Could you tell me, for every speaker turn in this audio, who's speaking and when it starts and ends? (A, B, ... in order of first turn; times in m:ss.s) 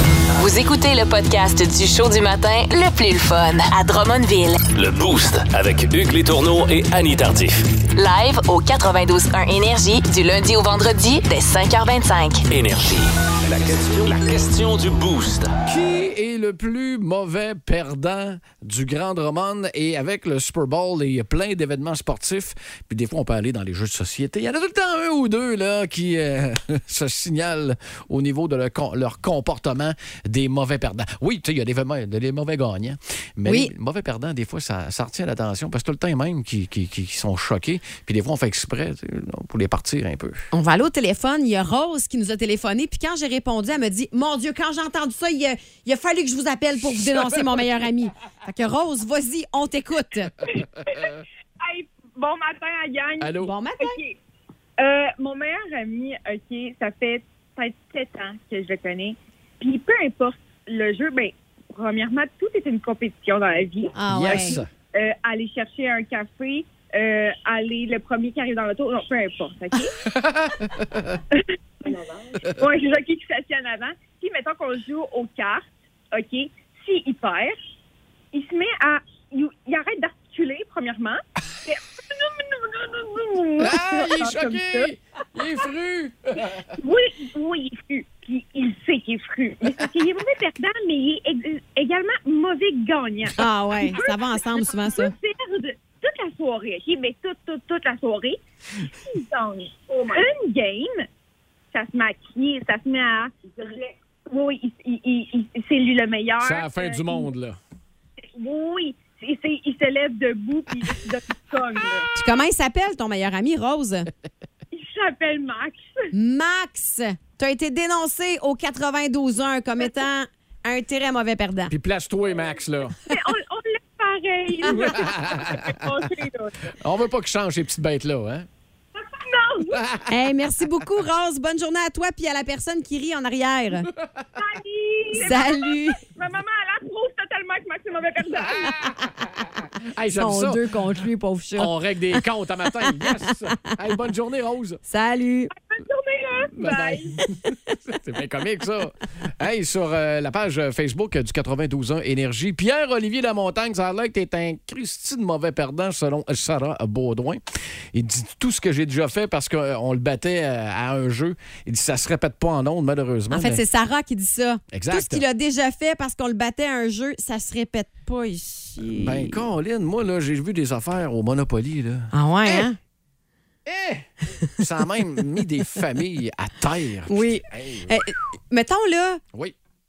0:00.4-0:04.6 A
0:04.7-0:07.7 B
0:08.0-0:12.4 A
0:12.5-0:15.6 B
0:15.6-0:40.4 C
0:33.4-0:33.7 D
0:40.5-0:50.3 D
0:50.6-0:54.2 E
0:53.2-0:53.5 C
0:53.4-0:54.0 D
0:54.8-1:09.9 E
1:04.0-1:04.6 D
1:04.1-1:04.7 C
1:10.1-1:11.2 C
1:11.3-1:17.6 E
1:18.3-1:24.9 E
1:23.6-1:26.7 C
1:26.7-1:38.4 E
1:33.3-1:35.1 D
1:39.0-1:41.0 E
1:41.7-1:47.3 E
1:46.4-1:47.6 C
1:48.4-1:52.1 E
1:52.1-1:54.1 D
1:54.7-1:56.1 E
1:56.1-2:01.7 D
2:01.7-2:03.0 C
2:03.0-2:06.6 E
2:04.7-2:05.9 C
2:06.8-2:08.5 C
2:09.0-2:09.8 E
2:09.7-2:10.0 C
2:10.1-2:13.9 D
2:14.4-2:18.8 E
2:15.1-2:16.0 D
2:18.6-2:19.3 C
2:19.9-2:20.6 C
2:20.2-2:22.2 D
2:21.6-2:24.8 C
2:24.9-2:25.5 D
2:25.7-2:27.2 E
2:26.5-2:37.4 C
2:37.9-2:43.6 C
2:43.3-2:49.4 D
2:44.7-2:45.2 C
2:48.8-2:52.7 C
2:52.1-2:52.8 D
2:53.6-2:58.0 C
2:57.1-2:59.2 D